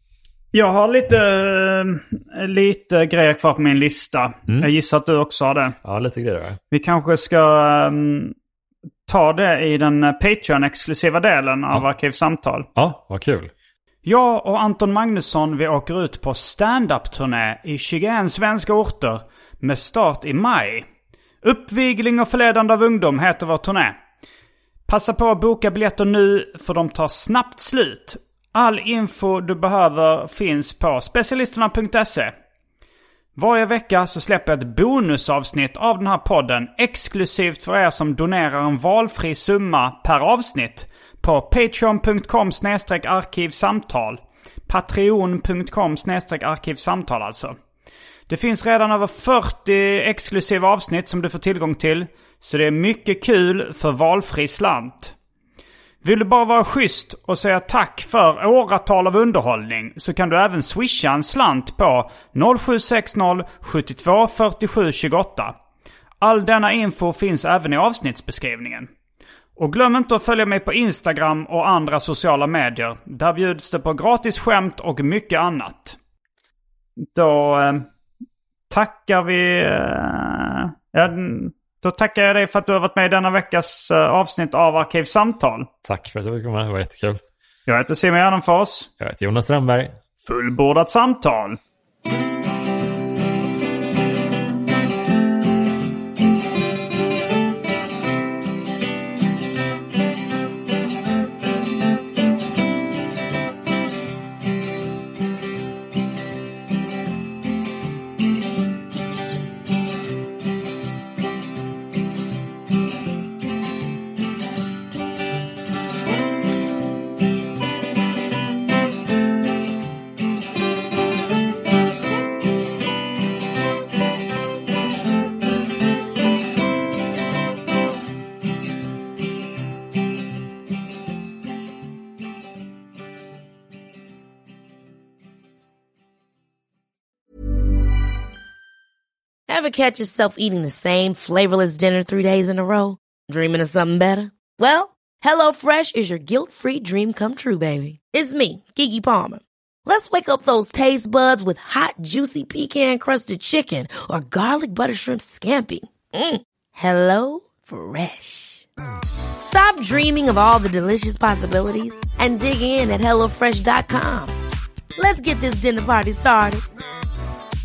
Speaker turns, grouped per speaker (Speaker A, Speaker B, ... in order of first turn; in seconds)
Speaker A: 0.5-5.8, 6.7-8.3, 9.1-12.7, 14.1-20.9, 21.4-24.0, 24.9-32.3, 33.4-47.6, 48.3-55.1, 56.0-65.5, 66.2-68.9, 69.6-76.0, 77.0-77.9, 78.7-85.7, 87.7-88.9, 90.2-91.6
Speaker B: 5.8-6.6, 12.8-13.5, 85.8-87.2, 89.0-90.0
Speaker C: 139.5-158.7, 159.4-164.3, 165.0-166.7